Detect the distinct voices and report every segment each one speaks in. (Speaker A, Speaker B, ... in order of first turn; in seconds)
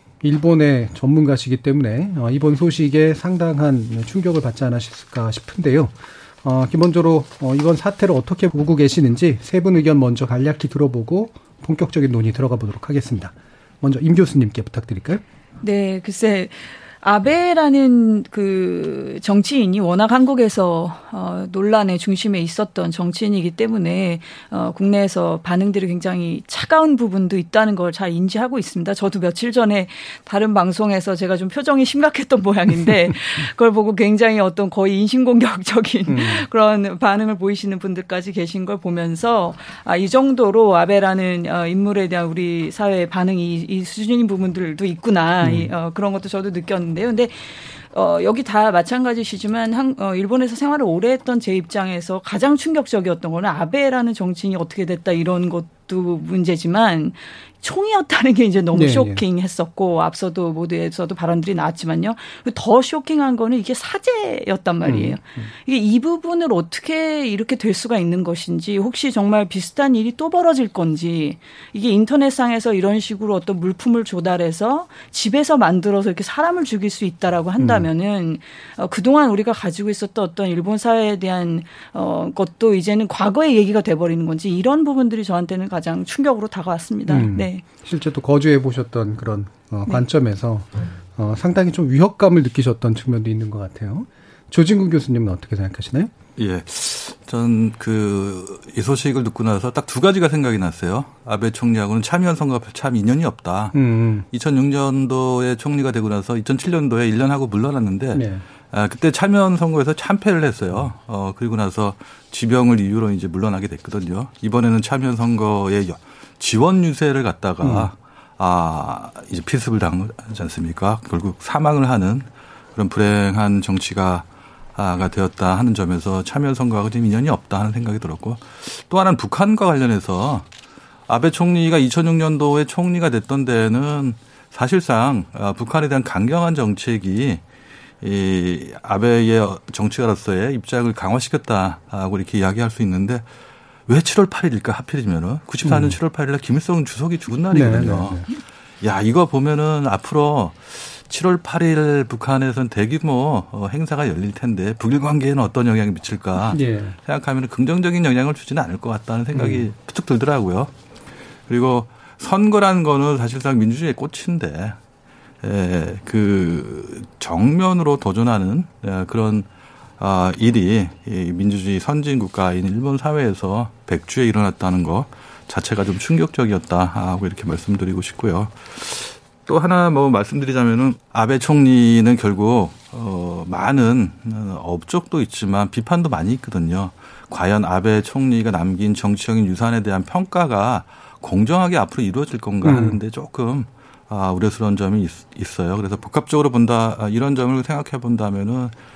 Speaker A: 0.2-15.2, 36.1-36.5, 45.4-45.7, 58.7-59.2, 64.8-65.5, 77.6-77.9, 87.1-96.1, 103.7-104.3, 108.1-108.5, 117.6-117.9, 145.6-146.0, 147.5-148.2, 156.5-156.9, 159.3-159.6, 192.6-193.0
Speaker B: 15.6-87.6
Speaker C: 96.4-103.8, 104.3-130.4, 131.1-137.4, 138.0-143.2, 143.9-148.2, 148.8-160.7, 161.5-164.8, 165.4-169.5, 170.0-198.7